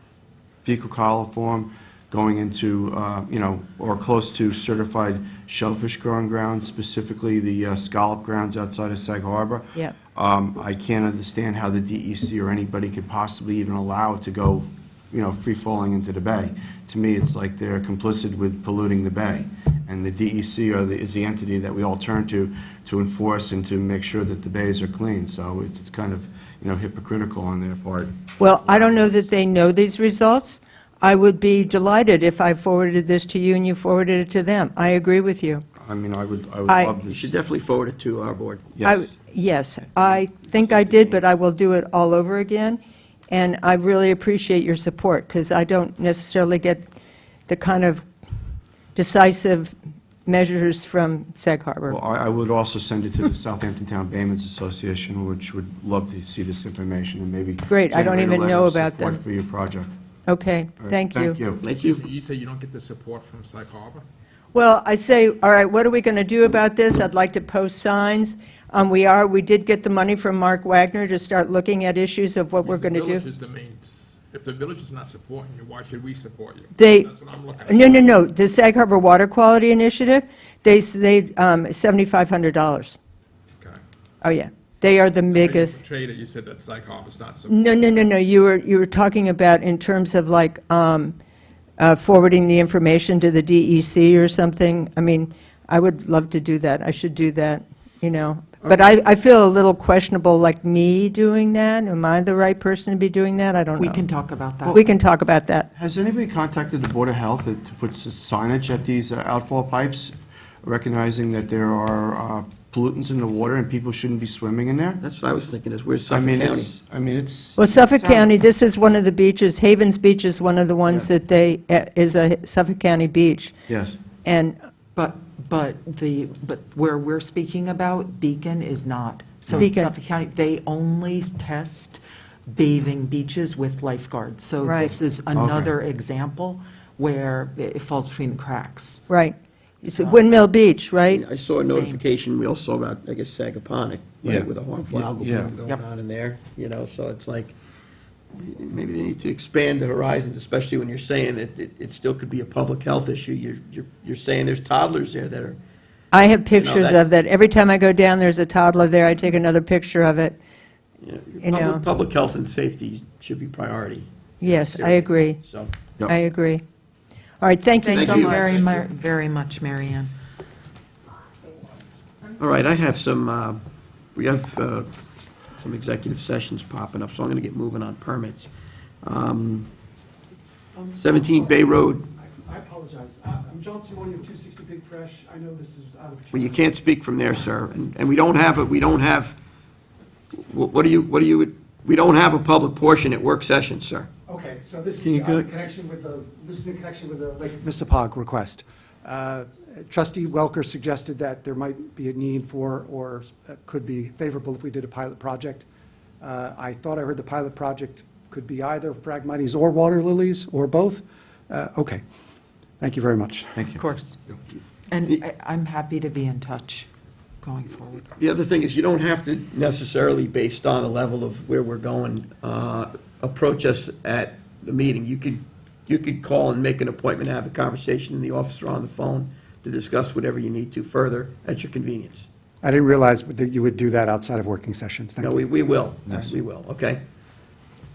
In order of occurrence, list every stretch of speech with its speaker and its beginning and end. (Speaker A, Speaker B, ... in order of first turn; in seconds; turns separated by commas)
Speaker A: 0.7-29.2, Speaker B: 28.4-35.6, Speaker A: 35.8-37.3, Speaker B: 36.7-37.0, Speaker C: 37.1-38.7, Speaker A: 38.8-39.0, Speaker B: 38.8-42.8, Speaker C: 40.0-41.2, Speaker B: 43.3-46.8, Speaker B: 47.5-48.1, Speaker B: 49.0-49.7, Speaker B: 50.3-52.0, Speaker A: 51.9-60.0, Speaker B: 57.7-59.2, Speaker B: 60.3-61.4, Speaker A: 60.8-61.6, Speaker C: 61.6-62.0, Speaker D: 61.8-64.0, Speaker B: 64.5-73.2, Speaker D: 72.6-78.1, Speaker B: 76.8-83.0, Speaker B: 84.2-85.8, Speaker D: 85.3-87.5, Speaker B: 87.5-91.1, Speaker B: 91.8-104.0, Speaker E: 103.8-104.8, Speaker B: 104.7-105.7, Speaker A: 105.8-115.0, Speaker C: 115.0-116.8, Speaker A: 116.1-118.3, Speaker B: 117.5-123.5, Speaker A: 123.7-124.0, Speaker B: 124.2-124.6, Speaker E: 125.0-139.1, Speaker B: 129.6-129.9, Speaker B: 134.6-134.9, Speaker A: 135.3-135.7, Speaker B: 139.1-141.2, Speaker E: 139.8-140.3, Speaker C: 141.1-147.6, Speaker E: 141.6-142.0, Speaker A: 144.2-145.5, Speaker C: 148.3-155.6, Speaker B: 156.1-160.4, Speaker C: 156.3-157.0, Speaker C: 161.0-165.7, Speaker B: 161.4-161.8, Speaker B: 164.4-165.4, Speaker B: 166.1-166.6, Speaker B: 167.4-168.6, Speaker E: 167.9-170.1, Speaker C: 167.9-168.8, Speaker C: 172.4-173.6, Speaker C: 174.2-174.9, Speaker C: 175.6-178.5, Speaker C: 179.0-179.7, Speaker C: 181.0-182.1, Speaker F: 182.2-186.7, Speaker C: 186.3-189.4, Speaker C: 190.3-194.1, Speaker F: 194.3-205.7, Speaker A: 195.0-195.5, Speaker F: 206.2-212.0, Speaker F: 212.8-213.7, Speaker E: 213.7-214.2, Speaker E: 214.9-216.9, Speaker E: 217.4-218.1, Speaker C: 218.2-232.3, Speaker F: 232.6-235.4, Speaker C: 235.2-237.0